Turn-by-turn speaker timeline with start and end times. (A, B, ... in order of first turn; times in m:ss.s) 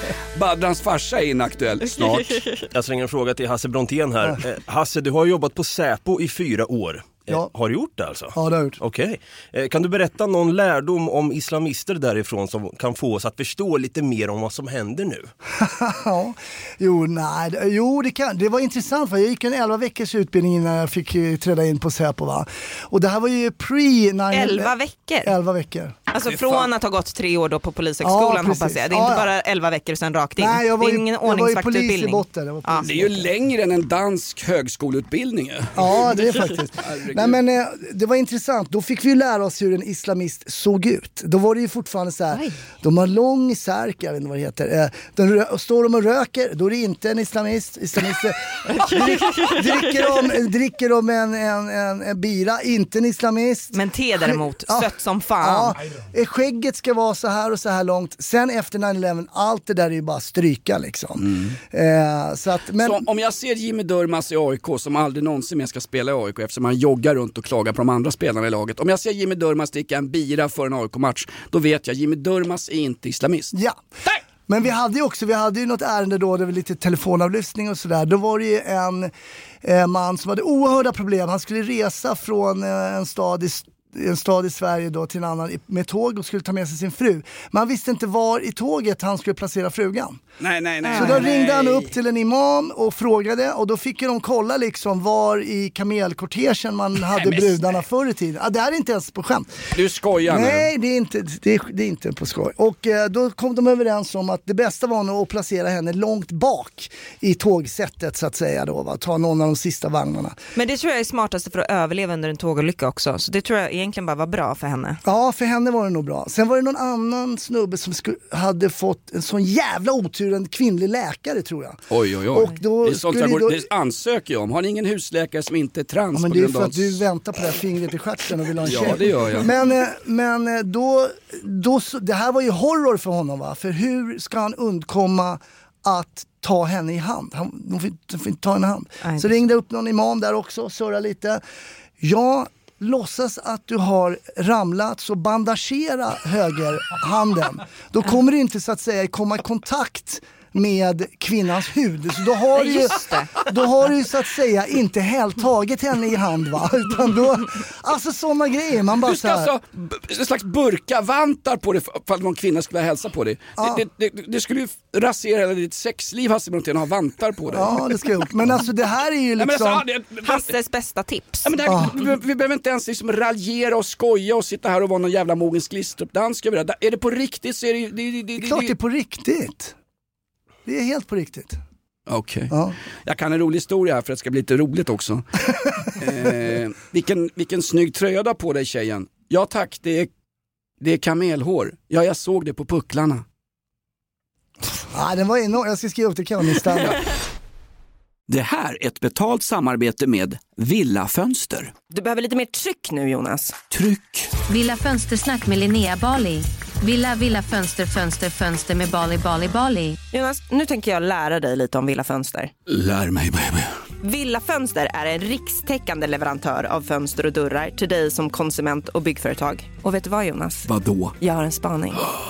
0:00.4-0:02.4 A
0:02.0-0:02.6 B
0:02.7-0:15.3 C
0:08.3-0:08.8 D
0:15.5-0:25.9 D
0:24.3-0:25.3 B
0:26.1-0:32.9 B
0:26.2-0:26.7 A
0:28.0-0:29.3 D
0:30.4-0:33.3 D
0:32.8-0:36.2 A
0:35.7-1:03.0 D
0:36.8-0:37.4 A
0:48.8-0:49.6 B
0:53.7-0:55.7 B
1:01.2-1:01.6 A
1:02.8-1:13.5 A
1:13.5-1:13.8 D
1:14.5-1:19.1 D
1:19.6-1:30.2 D
1:30.4-1:31.9 A
1:30.8-1:31.2 B
1:30.9-1:39.7 D
1:37.1-1:37.7 A
1:39.7-1:40.7 A
1:40.2-1:50.4 D
1:50.5-1:55.0 B
1:55.0-2:01.8 D
2:01.9-2:07.0 A
2:02.3-2:03.6 D
2:06.1-2:21.4 D
2:08.6-2:09.5 A
2:19.0-2:19.3 B
2:22.0-2:39.5 D
2:32.5-2:33.3 B
2:39.0-2:48.6 A
2:43.6-2:43.8 D
2:47.5-2:49.8 D
2:49.4-2:50.5 A
2:50.2-2:51.5 B
2:51.4-2:58.7 A
2:51.6-2:51.9 D
2:58.4-2:59.7 D
3:00.6-3:01.6 D
3:02.1-3:10.1 A
3:02.5-3:02.8 D
3:10.8-3:13.2 A
3:14.9-3:17.0 D
3:18.3-3:21.7 A
3:21.9-3:23.6 B
3:23.7-3:24.3 A
3:24.5-3:30.0 E
3:30.1-3:32.5 B
3:32.7-3:33.7 A
3:34.0-3:40.7 B
3:40.6-3:41.1 A
3:41.2-3:42.0 B